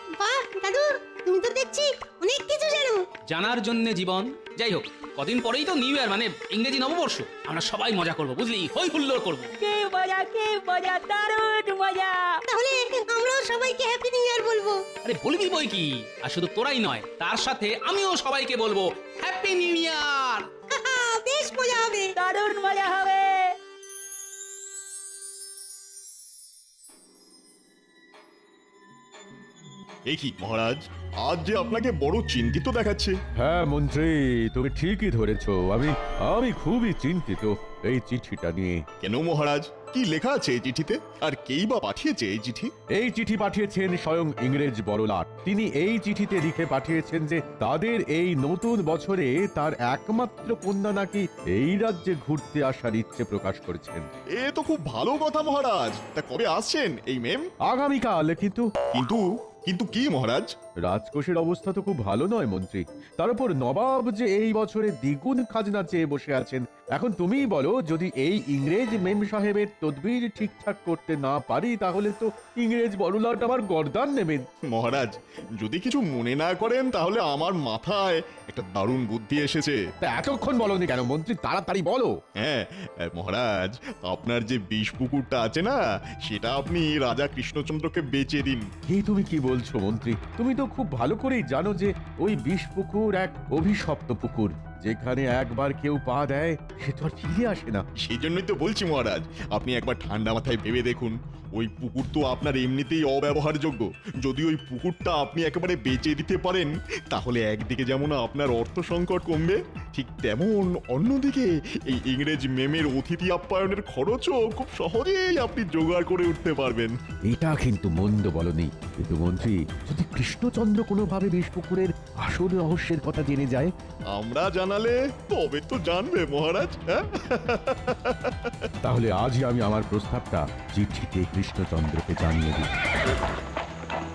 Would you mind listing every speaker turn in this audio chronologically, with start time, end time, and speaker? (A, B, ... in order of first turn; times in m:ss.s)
0:00.2-0:03.0 A
0:03.3-0:09.5 B
0:09.6-0:12.4 C
0:12.5-0:14.8 A
0:15.0-0:20.5 B
0:20.8-0:22.1 A
0:22.1-0:23.5 C
0:30.1-0:33.2 D
0:33.4-0:38.8 E
0:39.0-0:42.7 D
0:42.9-0:54.0 E
0:54.4-0:57.5 D
0:57.6-0:58.7 E
0:58.9-1:00.5 D
1:00.8-1:14.4 E
1:14.7-1:19.8 D
1:20.0-1:22.1 E
1:22.4-1:28.7 D
1:28.9-1:37.8 E
1:38.0-1:56.9 D
1:57.3-2:03.7 E
2:04.1-2:08.5 D
2:08.8-2:12.7 E